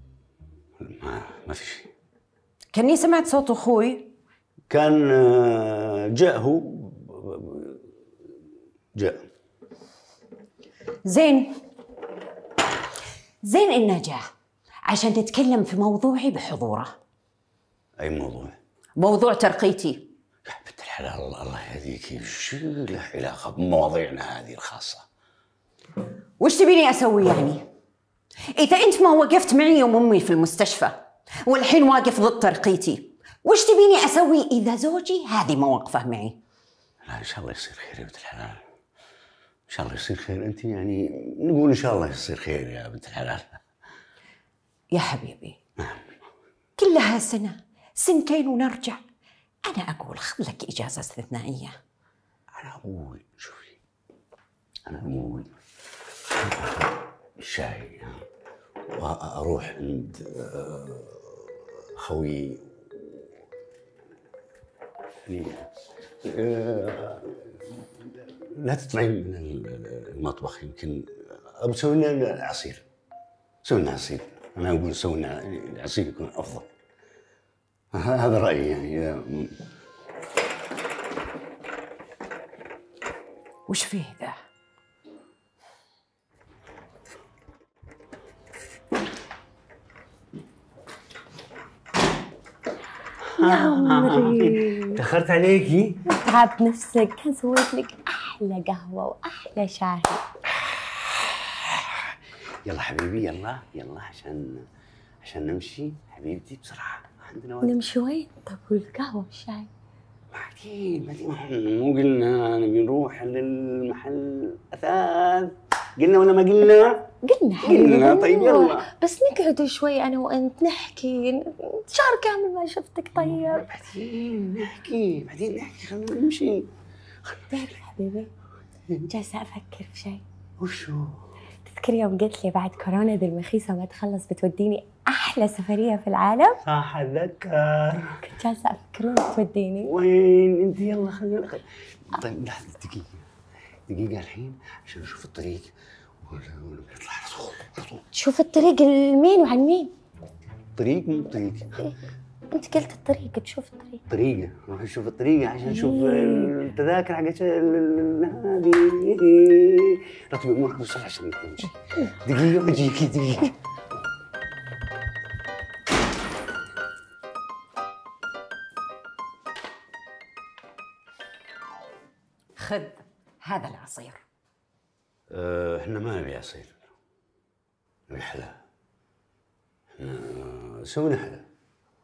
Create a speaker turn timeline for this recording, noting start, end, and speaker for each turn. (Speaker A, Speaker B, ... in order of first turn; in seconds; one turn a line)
Speaker A: 0.8-1.9
Speaker B: 2.7-4.1
Speaker A: 4.7-7.8
Speaker A: 8.9-9.2
Speaker B: 11.0-11.5
Speaker B: 13.4-14.2
Speaker B: 14.8-16.9
Speaker A: 18.0-18.6
Speaker B: 18.9-20.1
Speaker A: 20.4-25.0
Speaker B: 26.4-27.6
Speaker B: 28.5-36.4
Speaker A: 37.0-38.6
Speaker A: 39.7-43.6
Speaker B: 44.9-45.6
Speaker A: 45.8-46.2
Speaker B: 46.8-49.0
Speaker B: 49.6-51.8
Speaker A: 52.5-53.8
Speaker A: 54.9-55.5
Speaker A: 56.5-56.9
Speaker A: 57.4-58.2
Speaker A: 58.9-63.3
Speaker A: 65.2-65.7
Speaker A: 66.2-72.8
Speaker A: 73.6-76.7
Speaker A: 77.9-79.6
Speaker B: 83.7-84.3
Speaker A: 93.3-96.0
Speaker C: 93.4-95.0
Speaker C: 96.0-100.2
Speaker A: 100.6-104.7
Speaker A: 105.2-107.7
Speaker C: 107.6-109.7
Speaker A: 110.3-117.1
Speaker C: 117.2-123.7
Speaker A: 117.6-118.9
Speaker A: 123.1-126.7
Speaker A: 127.2-127.8
Speaker C: 127.5-128.3
Speaker C: 129.1-130.2
Speaker A: 130.6-131.2
Speaker C: 131.7-136.6
Speaker A: 136.6-138.2
Speaker C: 138.2-139.9
Speaker A: 139.8-143.3
Speaker A: 143.9-148.0
Speaker C: 148.1-149.9
Speaker A: 150.8-151.8
Speaker C: 152.5-154.0
Speaker A: 154.1-163.5
Speaker C: 155.7-156.5
Speaker B: 172.6-174.2
Speaker A: 175.3-176.8
Speaker A: 178.1-178.6
Speaker A: 180.0-181.5